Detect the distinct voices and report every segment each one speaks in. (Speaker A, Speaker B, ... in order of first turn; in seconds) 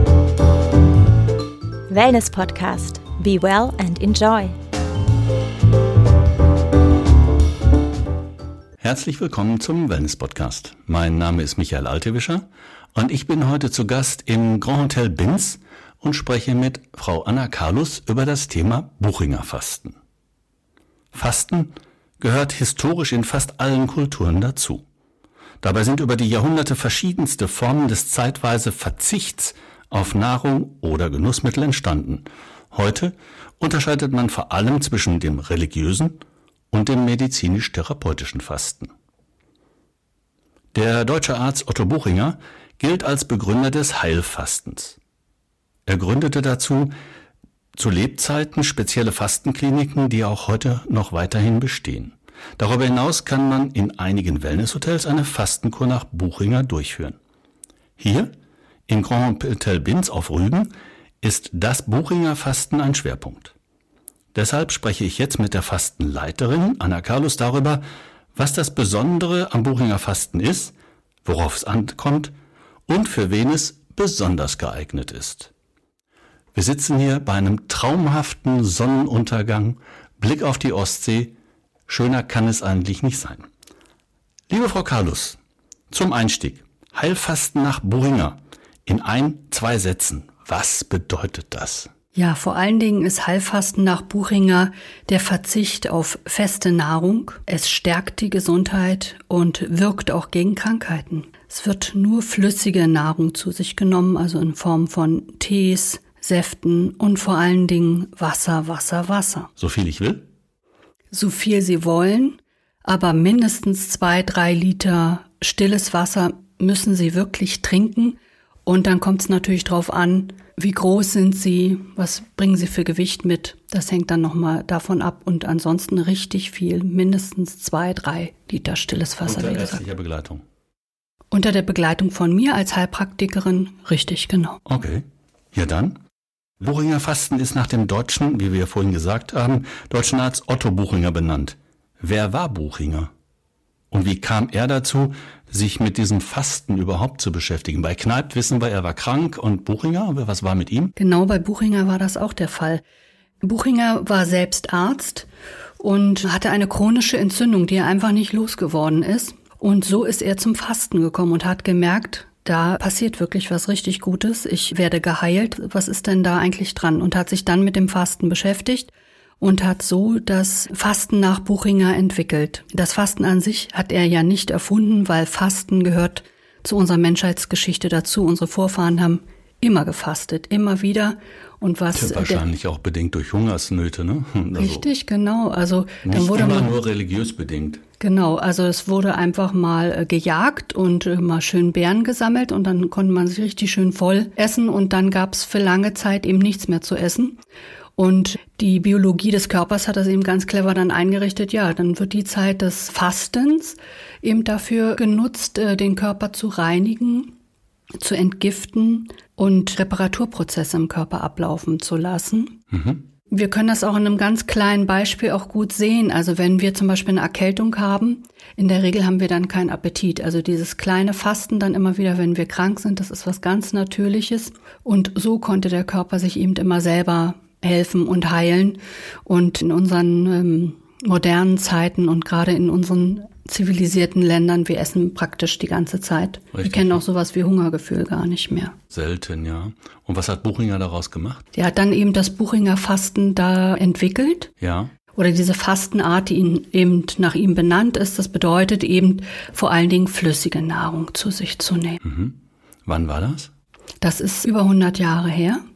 Speaker A: 1.9-4.5
Speaker B: 8.8-20.0, 21.1-24.8, 25.6-38.9, 40.7-45.0, 45.9-46.9, 47.7-57.2, 58.0-58.3, 58.9-63.5, 64.3-67.8, 68.3-70.7, 71.2-72.3, 72.9-75.5, 76.5-81.3, 81.9-83.5, 84.5-85.4, 85.9-91.9, 109.6-110.2, 129.2-130.4, 134.7-136.0, 136.6-143.1, 143.9-150.9, 181.9-184.8, 186.0-187.8, 212.7-213.0, 236.5-237.0, 238.9-241.4, 244.6-244.9, 252.0-253.5
Speaker C: 92.1-109.5, 111.1-129.8, 131.3-134.6, 150.9-152.8, 153.4-155.3, 155.8-182.4, 184.5-186.7, 188.0-197.4, 198.0-207.3, 208.0-212.6, 213.3-238.8, 241.5-244.5, 245.1-252.0, 254.0-255.6